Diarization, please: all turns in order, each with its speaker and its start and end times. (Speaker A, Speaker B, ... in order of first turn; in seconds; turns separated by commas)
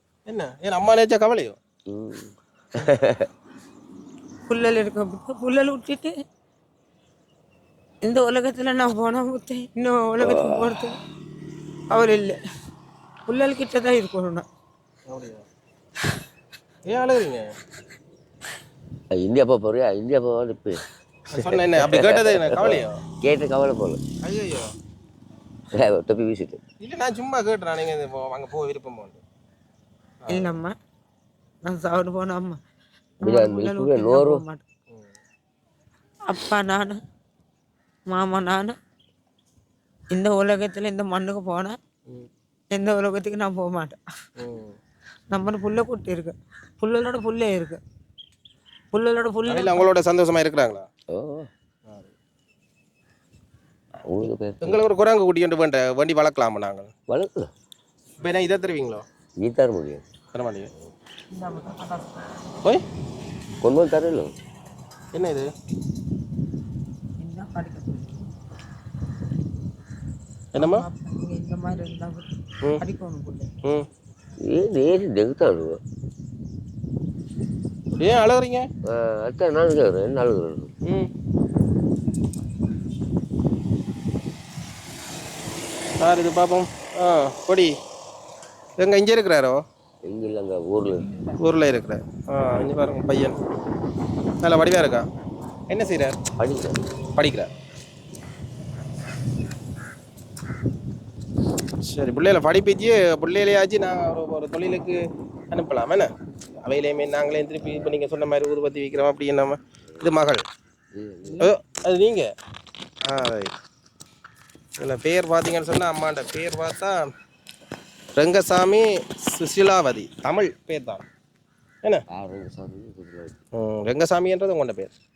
Speaker A: 0.3-1.6, Speaker B: 1.9-3.3, Speaker C: 4.5-6.1, Speaker C: 8.0-11.0, Speaker B: 10.2-10.9, Speaker C: 11.9-12.4, Speaker C: 13.3-14.5, Speaker A: 15.1-15.5, Speaker A: 16.9-17.5, Speaker B: 19.1-20.8, Speaker A: 21.3-23.0, Speaker B: 21.3-24.0, Speaker A: 24.2-24.7, Speaker B: 25.7-26.6, Speaker A: 26.8-29.2, Speaker A: 30.2-30.6, Speaker C: 30.3-30.8, Speaker C: 31.6-32.6, Speaker C: 33.2-34.6, Speaker B: 33.2-34.4, Speaker C: 36.3-37.0, Speaker C: 38.1-38.8, Speaker C: 40.1-41.8, Speaker C: 42.7-44.0, Speaker A: 44.4-44.8, Speaker C: 45.3-47.8, Speaker C: 48.9-49.9, Speaker A: 49.5-50.9, Speaker B: 51.1-51.5, Speaker B: 54.0-54.8, Speaker A: 54.6-56.9, Speaker B: 57.1-57.5, Speaker A: 58.2-59.0, Speaker B: 59.4-60.0, Speaker A: 60.3-60.7, Speaker C: 61.3-62.3, Speaker B: 63.6-64.3, Speaker A: 65.1-65.5, Speaker C: 67.2-68.3, Speaker A: 70.5-70.9, Speaker C: 70.6-73.5, Speaker B: 74.4-75.8, Speaker A: 77.9-78.7, Speaker B: 78.9-80.7, Speaker A: 80.8-81.1, Speaker A: 86.0-87.8, Speaker A: 88.8-89.6, Speaker B: 90.0-91.3, Speaker A: 91.3-93.4, Speaker A: 94.4-95.0, Speaker A: 95.7-96.2, Speaker B: 96.4-96.8, Speaker A: 97.2-97.5, Speaker A: 101.8-105.0, Speaker A: 105.5-106.1, Speaker A: 106.6-110.4, Speaker B: 110.9-111.5, Speaker A: 111.4-112.3, Speaker A: 113.1-113.5, Speaker A: 114.8-117.1, Speaker A: 118.2-121.1, Speaker B: 122.1-123.4, Speaker A: 123.6-124.9